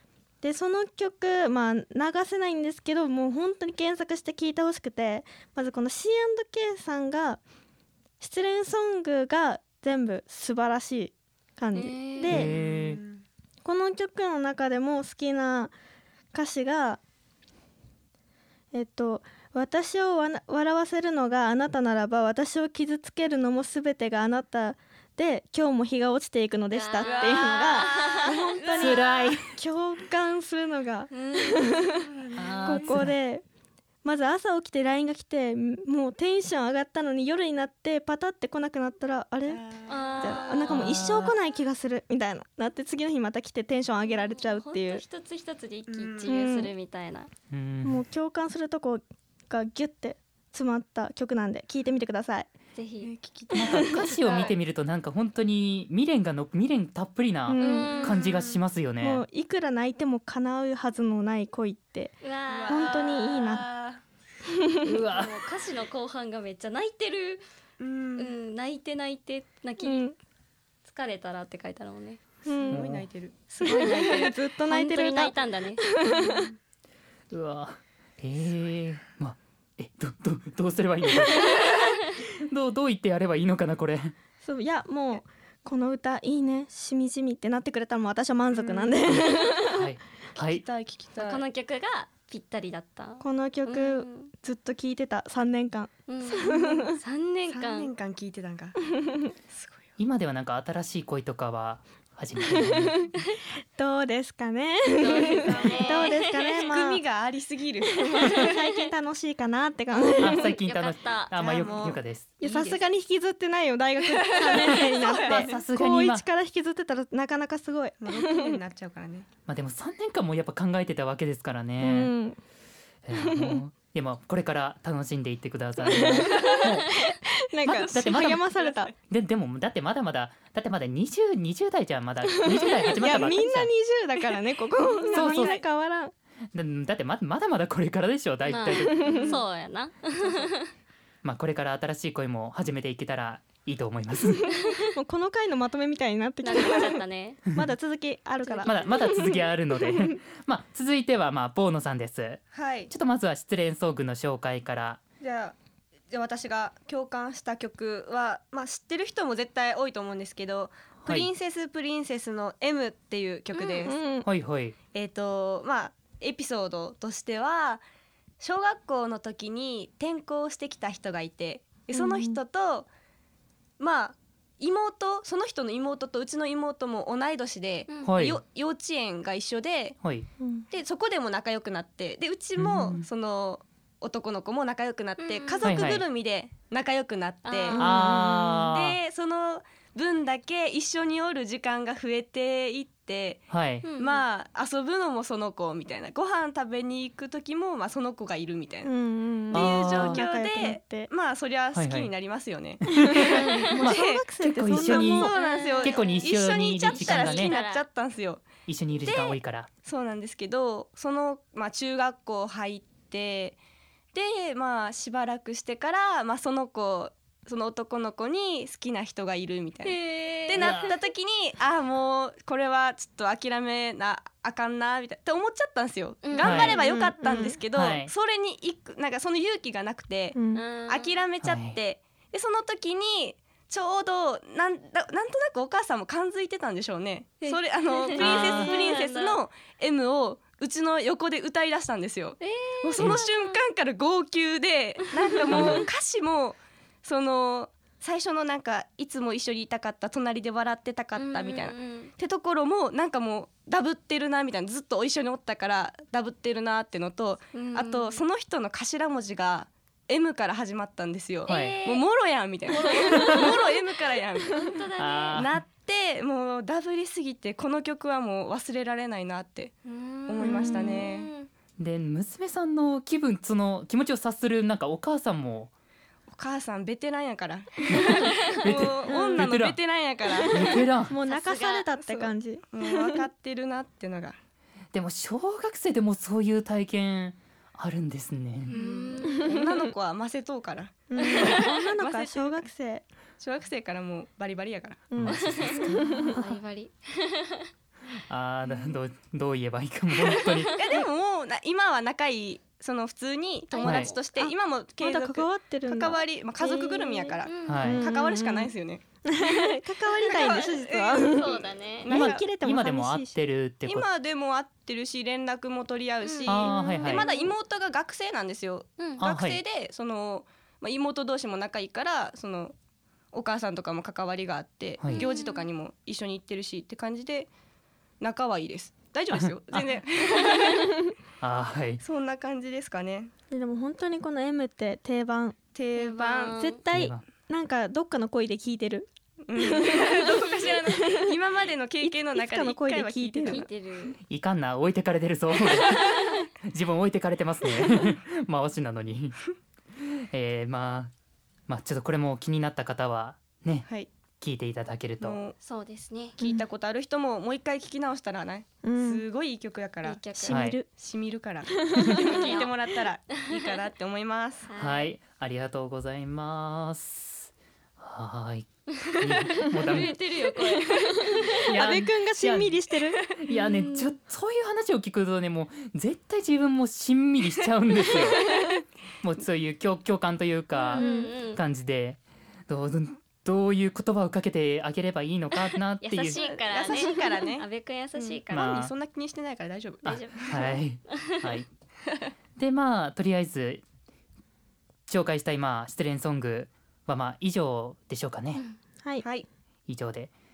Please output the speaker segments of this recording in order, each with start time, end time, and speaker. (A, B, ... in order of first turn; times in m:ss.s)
0:00.4-0:07.4 A
0:08.2-0:12.5 A
0:11.7-0:12.3 B
0:12.2-0:13.0 C
0:12.3-0:13.2 D
0:13.6-0:15.7 A
0:16.3-0:17.0 A
0:18.7-0:32.1 A
0:26.7-0:28.3 B
0:27.0-0:29.0 D
0:28.8-0:29.5 C
0:31.1-0:31.6 B
0:32.1-0:33.0 D
0:32.4-0:33.1 C
0:32.6-0:33.4 A
0:34.0-0:39.6 A
0:39.4-0:40.7 D
0:39.9-0:40.9 B
0:40.2-0:45.0 A
0:40.7-0:41.3 C
0:44.0-0:47.3 B
0:45.9-0:46.3 D
0:46.3-0:46.7 A
0:47.5-0:48.0 C
0:47.8-0:52.5 A
0:52.8-0:53.1 B
0:53.0-0:54.5 D
0:53.5-0:59.2 C
0:53.6-0:53.9 A
0:57.5-0:58.1 A
0:57.6-0:58.2 B
0:58.0-0:58.6 D
0:59.0-1:02.2 A
1:02.2-1:03.1 B
1:02.5-1:04.0 D
1:02.7-1:03.6 A
1:04.7-1:04.9 A
1:04.8-1:05.3 C
1:04.9-1:07.4 B
1:07.8-1:08.3 D
1:08.2-1:10.0 B
1:09.8-1:10.2 A
1:10.8-1:12.2 B
1:12.4-1:12.8 A
1:12.5-1:14.3 D
1:12.7-1:13.0 C
1:13.5-1:15.8 B
1:13.6-1:16.5 A
1:16.1-1:16.6 D
1:17.3-1:24.1 C
1:24.4-1:29.8 A
1:28.5-1:29.0 D
1:29.0-1:30.6 C
1:30.3-1:31.4 D
1:31.2-1:34.3 B
1:33.2-1:37.0 A
1:36.1-1:37.9 B
1:37.5-1:38.8 D
1:39.5-1:39.9 D
1:40.0-1:43.1 C
1:42.5-1:43.1 A
1:43.8-1:47.0 A
1:45.0-1:46.6 B
1:45.0-1:48.5 D
1:48.0-1:50.6 A
1:50.2-1:52.3 C
1:50.2-1:51.4 B
1:51.4-1:52.8 D
1:52.4-1:58.6 A
1:54.0-1:55.6 D
1:55.2-1:56.2 C
1:58.0-1:59.3 D
1:59.5-2:02.1 C
2:01.8-2:02.4 A
2:03.0-2:07.0 C
2:03.1-2:03.6 A
2:05.9-2:08.9 A
2:07.6-2:08.4 C
2:07.7-2:08.9 D
2:09.1-2:13.7 C
2:12.3-2:16.1 A
2:14.8-2:15.6 D
2:15.1-2:15.6 C
2:16.5-2:19.1 C
2:18.4-2:20.7 B
2:18.9-2:19.4 A
2:19.0-2:19.4 D
2:21.2-2:24.4 C
2:24.8-2:27.0 A
2:26.4-2:27.4 B
2:27.5-2:30.1 A
2:28.4-2:28.9 B
2:28.6-2:35.0 C
2:32.5-2:32.9 D
2:35.2-2:35.5 D
2:36.1-2:44.0 D
2:43.5-2:43.9 B
2:43.8-2:44.3 A
2:44.2-2:44.7 C
2:44.9-2:47.8 D
2:48.4-2:52.9 D
2:51.9-2:52.4 A
2:53.8-3:00.0 D
2:57.9-2:58.1 B
2:58.0-2:58.4 C
3:00.0-3:00.3 C
3:00.7-3:07.9 D
3:02.6-3:03.0 C
3:05.2-3:05.7 B
3:05.6-3:06.0 C
3:07.4-3:07.8 B
3:07.7-3:08.5 A
3:07.8-3:09.0 C
3:08.5-3:13.4 D
3:13.5-3:13.8 C
3:13.8-3:14.2 B
3:14.0-3:18.9 D
3:18.8-3:21.1 A
3:19.5-3:28.4 D
3:19.5-3:20.2 C
3:21.7-3:22.1 C
3:22.9-3:27.6 C
3:23.0-3:25.4 A
3:25.3-3:26.3 B
3:26.8-3:27.8 B
3:28.6-3:29.7 C
3:29.8-3:33.6 D
3:34.1-4:24.6 D
3:39.8-3:40.9 B
3:40.6-3:40.9 C
3:46.2-3:46.8 B
3:46.4-3:46.8 C
3:46.7-3:47.6 A
3:47.7-3:48.1 C
3:50.3-3:50.6 A
3:50.5-3:51.2 B
3:51.4-3:51.8 C
3:57.4-3:59.4 B
3:58.2-3:58.8 C
4:02.4-4:03.6 B
4:03.0-4:03.2 C
4:05.3-4:05.8 B
4:05.5-4:05.8 C
4:11.2-4:12.1 B
4:17.5-4:18.2 B
4:21.4-4:22.0 B
4:21.5-4:21.8 C
4:22.7-4:23.6 B
4:24.5-4:25.4 B
4:25.0-4:25.6 C
4:25.3-4:29.7 D
4:29.8-4:31.5 B
4:30.3-4:31.3 D
4:30.4-4:31.0 A
4:31.8-4:35.7 C
4:36.3-4:40.8 D
4:37.9-4:39.8 C
4:38.2-4:38.6 B
4:39.1-4:39.4 A
4:40.5-4:41.2 C
4:41.0-4:43.2 A
4:41.2-4:41.9 B
4:42.0-4:44.4 D
4:44.9-4:48.7 C
4:48.7-4:52.6 D
4:48.7-4:49.5 B
4:51.1-4:53.0 A
4:51.2-4:51.6 B
4:53.4-4:55.0 D
4:55.1-4:56.4 A
4:55.2-4:56.4 C
4:55.2-4:57.7 B
4:58.3-5:00.8 C
5:00.3-5:00.7 B
5:00.7-5:09.0 D
5:03.7-5:04.2 B
5:03.8-5:04.1 C
5:04.4-5:08.7 A
5:07.5-5:08.0 B
5:07.6-5:08.0 C
5:09.2-5:13.4 A
5:10.2-5:12.5 D
5:11.2-5:12.1 B
5:12.1-5:14.1 C
5:13.8-5:22.7 D
5:16.2-5:17.5 B
5:16.4-5:17.3 C
5:19.2-5:19.6 C
5:23.3-5:27.5 D
5:25.0-5:25.2 C
5:25.1-5:25.6 B
5:28.2-5:30.9 D
5:29.3-5:30.0 C
5:31.4-5:32.0 C
5:32.0-5:33.3 D
5:33.5-5:35.6 A
5:35.7-5:36.6 D
5:36.0-5:36.8 B
5:36.6-5:40.3 A
5:36.9-5:37.2 C
5:39.5-5:43.7 D
5:40.9-5:41.3 A
5:42.0-5:43.6 A
5:43.4-5:44.2 B
5:44.2-5:49.4 C
5:50.1-5:51.1 C
5:51.7-5:53.9 C
5:54.4-5:55.4 C
5:55.2-5:55.5 D
5:55.6-5:56.3 B
5:56.4-6:00.2 D
5:58.8-5:59.2 A
6:00.0-6:00.7 B
6:00.4-6:00.9 A
6:00.5-6:00.8 C
6:00.9-6:04.7 D
6:01.9-6:02.2 A
6:02.2-6:02.7 B
6:04.7-6:05.1 B
6:04.8-6:10.2 C
6:09.0-6:11.7 B
6:11.6-6:13.2 A
6:11.6-6:12.8 C
6:13.3-6:18.6 C
6:13.5-6:14.1 B
6:19.2-6:26.4 C
6:20.8-6:21.6 B
6:21.0-6:21.3 A
6:26.0-6:28.7 B
6:26.3-6:30.6 D
6:28.5-6:28.9 C
6:30.0-6:31.6 B
6:30.0-6:31.7 C
6:32.6-6:33.8 C
6:35.1-6:38.6 C
6:39.9-6:40.3 C